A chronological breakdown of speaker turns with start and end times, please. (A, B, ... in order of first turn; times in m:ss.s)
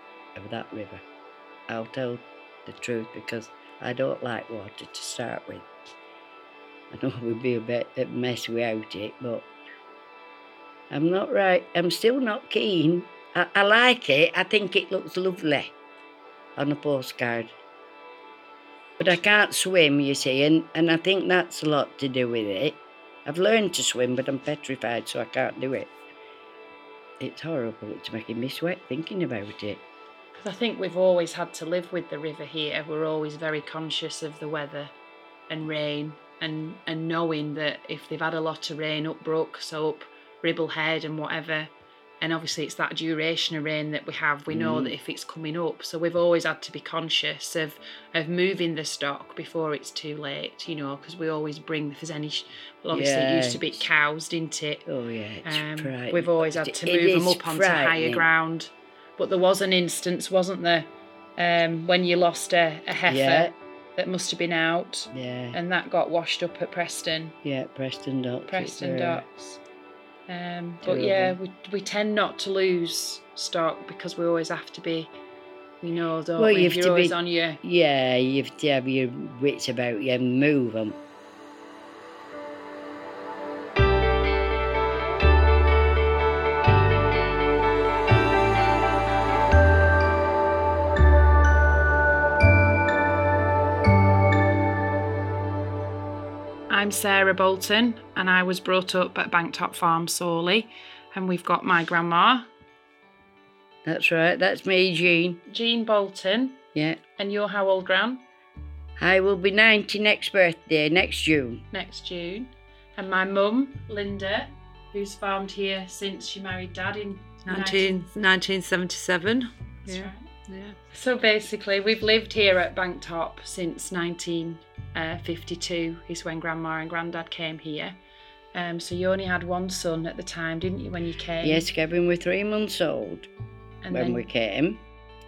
0:00.3-0:01.0 A
0:01.7-0:05.7 A
0:06.9-0:09.5 A
0:10.9-0:15.7 A
0:16.6-0:17.5 A
0:19.0-0:25.9 A
0:27.2-0:29.8 A
0:30.4-0:34.9 B
0:35.5-0:54.8 B
0:44.5-0:44.9 A
0:52.9-0:53.8 A
0:54.8-0:58.3 A
0:55.4-1:07.3 B
1:03.0-1:03.5 A
1:05.1-1:05.6 A
1:07.4-1:09.2 A
1:08.5-1:09.6 B
1:10.3-1:15.1 B
1:10.8-1:11.4 A
1:15.8-1:17.6 B
1:16.4-1:21.0 A
1:36.7-1:42.5 B
1:43.8-1:45.4 A
1:45.5-1:46.6 B
1:46.7-1:47.0 A
1:47.2-1:48.2 B
1:49.0-1:51.6 A
1:51.7-1:58.0 B
1:57.4-2:00.8 C
1:59.8-2:00.3 B
2:00.9-2:08.0 B
2:08.5-2:11.7 B
2:11.4-2:13.3 A
2:13.8-2:14.3 B
2:13.9-2:14.8 A